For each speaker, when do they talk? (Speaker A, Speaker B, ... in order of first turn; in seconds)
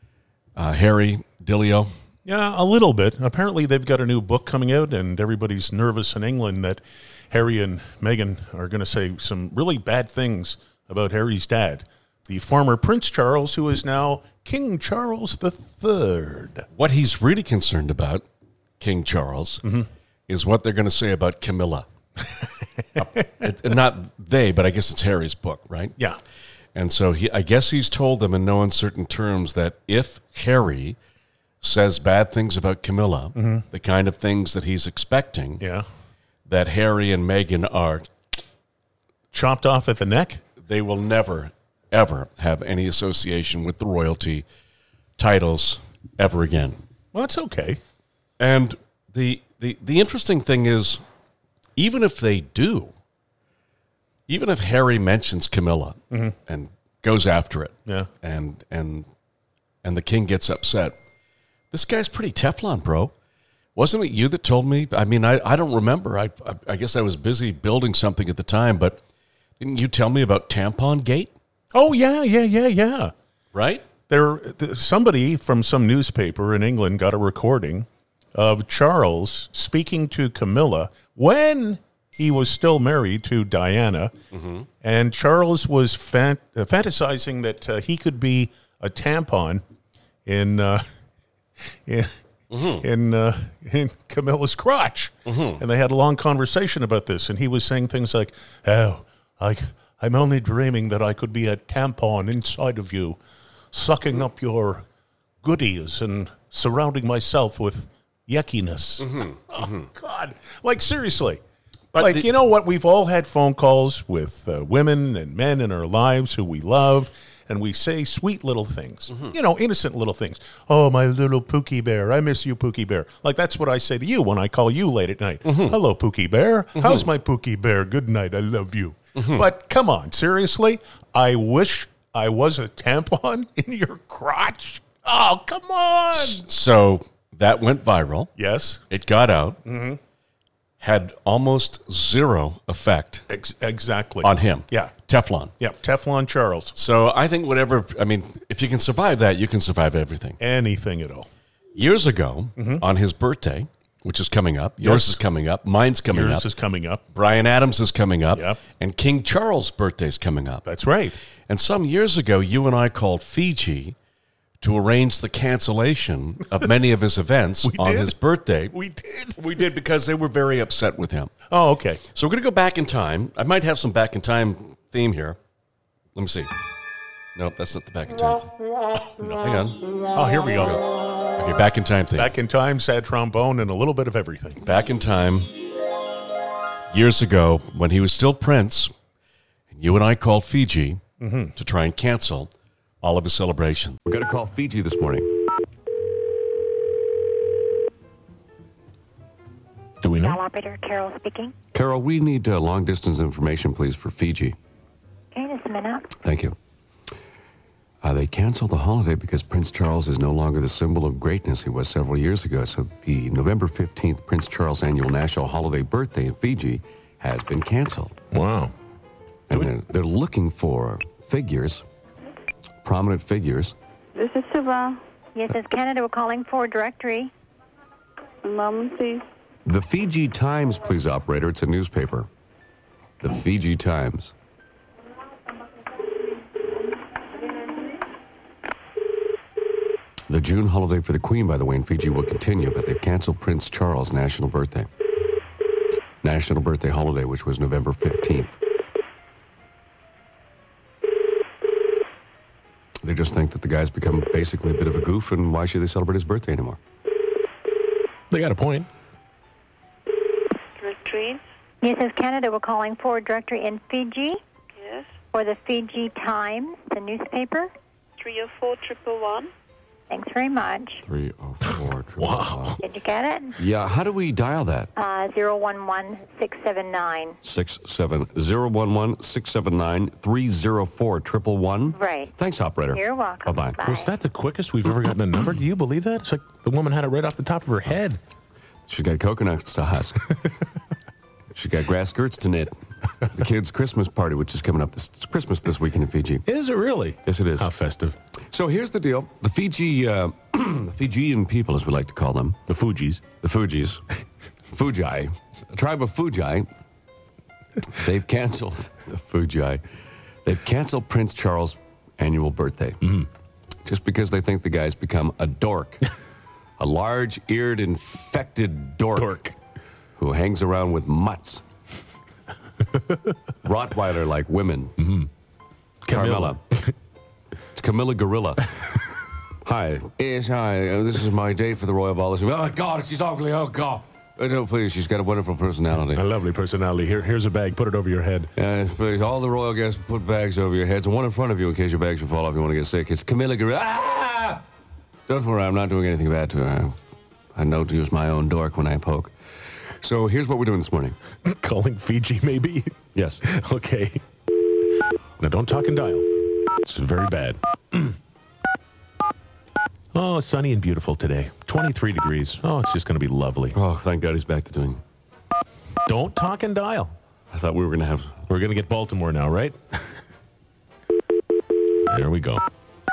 Speaker A: 0.6-1.9, 16.7-18.2, 18.8-19.6, 20.3-21.9, 23.4-25.9, 26.7-31.0, 31.6-35.6, 36.5-38.1, 40.6-44.4, 45.2-46.8, 48.4-51.0, 51.8-52.9, 54.3-59.1, 59.8-61.0, 61.7-63.1, 63.8-69.0, 69.6-71.3, 73.5-73.8, 84.3-84.7, 92.5-92.8, 95.2-95.6, 109.0-109.8, 111.9-112.3, 125.5-125.8, 129.2-129.4, 136.1-138.3, 138.9-139.6, 140.8-143.2, 144.2-145.5, 146.7-150.4, 151.7-156.5, 157.1-160.6, 161.5-163.9, 164.6-168.7, 169.4-171.3, 172.1-175.4, 176.1-176.5, 177.3-178.5, 179.3-179.8, 181.4-182.3, 184.6-185.5, 186.9-188.9, 189.7-191.0, 191.6-192.5, 193.0-194.0
Speaker B: 2.2-16.7, 22.9-23.4, 33.3-33.6, 39.3-40.4, 47.1-47.8, 56.1-56.4, 71.7-73.1, 74.1-84.1, 84.8-89.6, 90.2-90.8, 91.8-103.2, 103.7-104.8, 105.4-111.4, 112.0-136.4, 138.3-138.8, 139.6-140.0, 143.3-144.9, 145.6-146.7, 150.4-151.3, 152.6-152.8, 154.8-155.2, 156.1-157.0, 158.3-158.6, 160.6-161.2, 167.6-168.2, 168.7-169.6, 171.5-172.0, 180.1-180.8, 182.1-184.6, 191.2-191.5
Speaker C: 194.1-195.3, 201.7-204.6, 206.2-206.5, 208.0-218.2, 219.5-221.8, 222.8-223.8, 229.7-232.3, 233.2-234.3, 240.3-244.9, 246.2-248.6, 253.0-256.8, 271.0-272.8, 273.6-274.9, 277.4-283.8, 288.9-290.3, 291.5-292.7, 293.2-296.4, 297.2-297.7, 298.5-302.6, 303.4-304.0, 304.7-306.7, 307.9-309.8, 310.4-313.1, 313.8-316.0, 316.8-319.4, 320.2-321.6, 323.6-325.0, 326.1-326.6, 327.7-328.6, 329.6-336.2, 338.6-344.6, 345.3-346.9, 347.5-351.1, 353.1-353.4, 363.7-365.0, 367.5-368.4
Speaker D: 200.0-200.4, 218.3-218.7, 258.3-258.9, 272.2-272.8, 283.8-288.2, 296.4-298.2, 302.7-303.2, 319.2-319.5, 325.0-325.3, 326.0-326.9, 336.1-338.5, 351.4-354.2, 355.4-358.1, 360.1-363.8, 366.1-367.1, 368.5-369.8, 372.1-372.6
Speaker E: 200.2-201.5, 205.3-206.2, 225.3-227.3, 261.8-264.4, 265.3-267.7, 270.1-271.0, 272.8-273.6, 274.9-277.4, 281.9-282.3, 282.9-284.1
Speaker F: 224.2-225.0, 228.4-229.2, 260.8-261.4, 264.8-265.1, 268.2-269.5